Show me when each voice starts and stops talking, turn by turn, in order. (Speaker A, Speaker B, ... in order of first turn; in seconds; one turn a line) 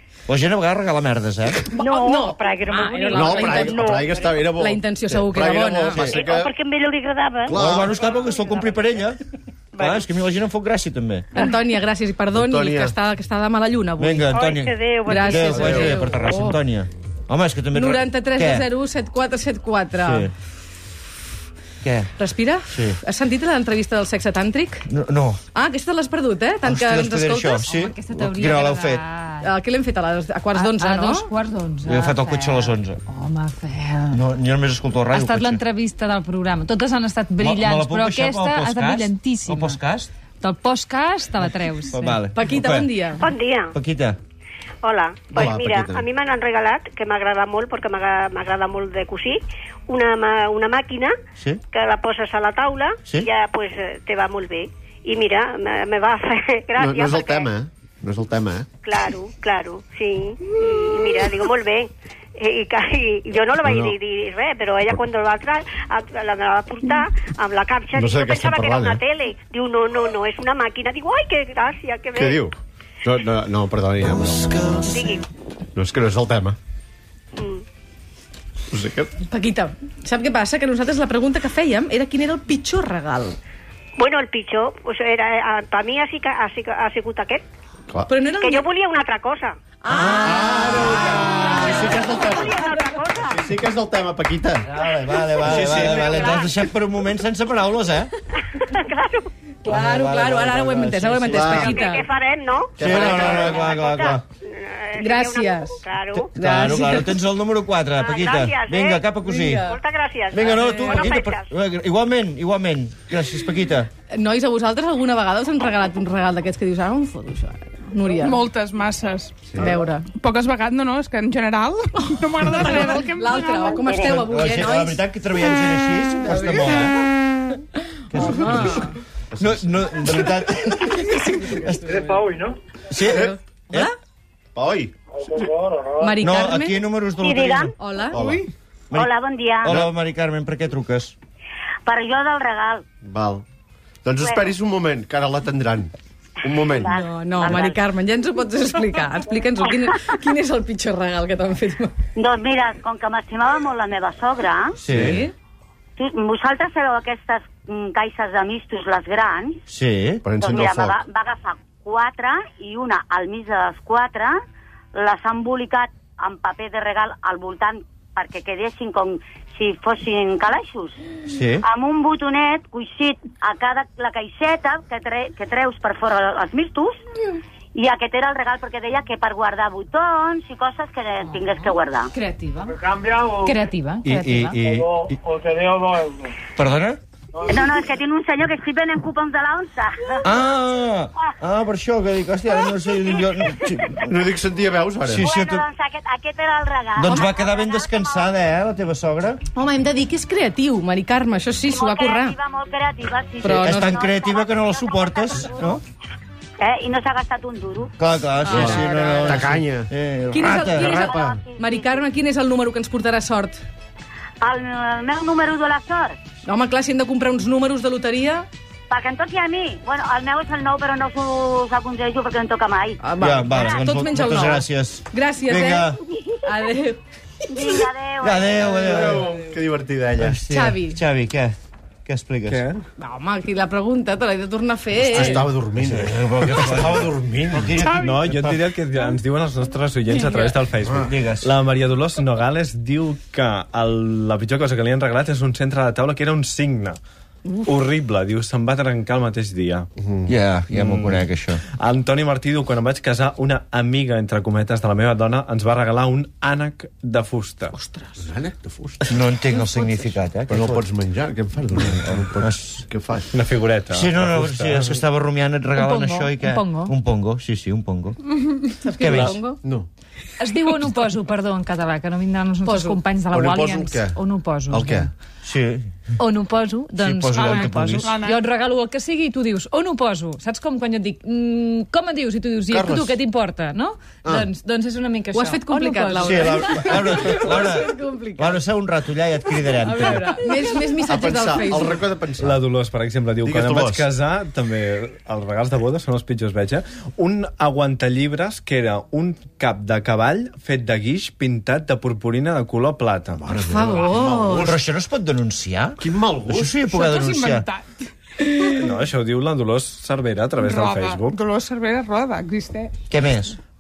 Speaker A: 0.3-1.6
Speaker B: 1.7-4.6
Speaker C: 1.8-3.8
Speaker D: 3.1-6.5
Speaker C: 4.6-6.1
Speaker A: 5.9-6.3
Speaker B: 6.0-9.0
Speaker D: 7.5-7.9
Speaker A: 7.5-9.2
Speaker B: 9.7-10.1
Speaker A: 9.8-11.3
Speaker C: 11.3-14.3
Speaker D: 12.3-13.0
Speaker A: 14.0-18.7
Speaker B: 14.3-15.9
Speaker C: 15.1-16.6
Speaker C: 17.7-20.3
Speaker A: 20.0-20.3
Speaker A: 21.8-22.1
Speaker C: 22.2-24.9
Speaker A: 22.7-23.0
Speaker A: 24.9-25.4
Speaker C: 25.5-27.7
Speaker A: 26.6-29.0
Speaker E: 27.6-29.5
Speaker C: 29.4-31.3
Speaker E: 30.5-34.2
Speaker A: 31.9-33.0
Speaker A: 34.1-35.6
Speaker E: 35.1-39.8
Speaker A: 37.4-40.1
Speaker E: 40.4-42.2
Speaker A: 41.9-42.9
Speaker C: 42.3-43.2
Speaker F: 43.2-43.8
Speaker A: 43.7-44.2
Speaker F: 44.8-51.1
Speaker D: 45.3-46.1
Speaker F: 51.7-57.5
Speaker D: 56.8-58.7
Speaker F: 58.8-72.4
Speaker D: 63.6-64.0
Speaker D: 68.0-69.0
Speaker D: 72.2-74.5
Speaker A: 74.6-74.9
Speaker F: 74.9-75.3
Speaker D: 75.8-76.6
Speaker F: 77.4-77.6
Speaker D: 78.7-79.1
Speaker C: 79.3-83.4
Speaker F: 84.0-87.4
Speaker C: 88.1-88.7
Speaker F: 88.4-89.6
Speaker C: 89.8-92.6
Speaker A: 89.9-92.0
Speaker D: 90.2-92.5
Speaker F: 91.3-93.4
Speaker D: 93.2-94.7
Speaker A: 94.7-98.1
Speaker D: 95.4-96.3
Speaker F: 96.0-96.5
Speaker F: 98.6-99.3
Speaker C: 99.6-102.0
Speaker A: 99.7-101.8
Speaker D: 101.3-101.7
Speaker F: 101.6-106.3
Speaker D: 102.8-103.7
Speaker A: 102.8-104.2
Speaker C: 105.0-105.8
Speaker A: 106.1-109.7
Speaker C: 106.3-107.2
Speaker F: 108.0-109.1
Speaker C: 109.3-109.8
Speaker F: 109.6-111.5
Speaker A: 110.3-113.9
Speaker C: 114.1-118.4
Speaker G: 118.2-119.4
Speaker D: 119.5-119.8
Speaker C: 119.6-120.1
Speaker G: 120.1-123.9
Speaker C: 122.0-125.0
Speaker A: 123.8-127.0
Speaker A: 128.1-128.9
Speaker C: 128.1-129.0
Speaker D: 129.4-130.3
Speaker A: 129.4-132.3
Speaker C: 131.4-131.7
Speaker H: 131.9-132.6
Speaker A: 132.9-133.9
Speaker D: 133.0-133.3
Speaker C: 133.1-133.9
Speaker D: 134.6-134.9
Speaker H: 135.5-136.1
Speaker C: 136.0-136.8
Speaker A: 136.2-137.7
Speaker I: 137.2-137.7
Speaker C: 137.8-138.2
Speaker D: 138.1-138.5
Speaker A: 138.9-141.2
Speaker I: 138.9-139.8
Speaker D: 139.7-139.9
Speaker I: 141.9-142.8
Speaker D: 143.0-143.4
Speaker D: 144.1-146.9
Speaker I: 144.2-144.5
Speaker I: 146.5-147.8
Speaker C: 146.9-151.9
Speaker I: 152.2-154.8
Speaker A: 154.8-155.2
Speaker D: 154.9-155.2
Speaker C: 154.9-155.3
Speaker I: 156.0-159.6
Speaker A: 159.7-160.2
Speaker D: 160.2-161.0
Speaker I: 160.4-164.4
Speaker I: 165.0-171.0
Speaker A: 171.3-171.7
Speaker I: 171.6-177.0
Speaker I: 177.7-182.1
Speaker E: 182.1-182.8
Speaker H: 182.8-183.5
Speaker E: 183.4-184.6
Speaker A: 184.0-185.2
Speaker H: 184.8-186.3
Speaker A: 186.6-187.0
Speaker I: 187.5-190.2
Speaker A: 190.2-194.0
Speaker D: 193.9-195.3
Speaker A: 195.1-195.7
Speaker I: 195.2-198.3
Speaker A: 197.0-199.4
Speaker C: 199.6-202.4
Speaker I: 201.7-205.8
Speaker C: 203.4-204.0
Speaker A: 203.4-205.8
Speaker I: 206.6-207.9
Speaker A: 208.0-211.2
Speaker C: 208.4-209.5
Speaker D: 208.5-209.9
Speaker C: 210.3-213.6
Speaker I: 210.8-212.0
Speaker I: 214.4-216.2
Speaker C: 216.5-218.5
Speaker I: 218.9-223.0
Speaker C: 223.0-225.9
Speaker A: 223.2-226.0
Speaker C: 226.4-227.0
Speaker I: 227.5-229.0
Speaker A: 228.2-229.3
Speaker D: 228.6-230.4
Speaker A: 230.2-232.6
Speaker C: 230.5-231.0
Speaker C: 233.0-235.4
Speaker D: 235.1-237.9
Speaker A: 235.9-238.7
Speaker J: 237.9-247.0
Speaker C: 240.2-240.5
Speaker D: 240.8-241.1
Speaker A: 240.9-241.5
Speaker J: 247.6-249.9
Speaker D: 250.0-250.3
Speaker A: 250.3-251.6
Speaker J: 250.7-257.8
Speaker C: 257.8-258.1
Speaker D: 258.2-259.2
Speaker A: 259.1-260.9
Speaker D: 260.5-263.3
Speaker A: 262.4-262.8
Speaker J: 263.3-265.0
Speaker A: 263.9-268.2
Speaker E: 265.8-266.9
Speaker C: 268.8-269.6
Speaker A: 269.0-269.4
Speaker J: 269.1-269.4
Speaker D: 269.6-269.9
Speaker E: 270.4-275.1
Speaker C: 272.6-273.0
Speaker D: 273.3-275.1
Speaker A: 275.4-275.9
Speaker E: 276.2-286.9
Speaker A: 277.0-278.2
Speaker G: 277.4-278.4
Speaker D: 282.7-283.2
Speaker D: 284.2-284.5
Speaker C: 285.3-288.6
Speaker A: 286.2-290.4
Speaker C: 289.8-292.0
Speaker D: 291.1-292.6
Speaker J: 292.4-303.5
Speaker D: 293.4-294.1
Speaker D: 303.4-304.8
Speaker C: 303.6-304.7
Speaker A: 304.6-307.7
Speaker D: 306.0-306.8
Speaker G: 306.9-308.7
Speaker J: 308.6-311.4
Speaker G: 310.6-312.9
Speaker A: 313.1-313.6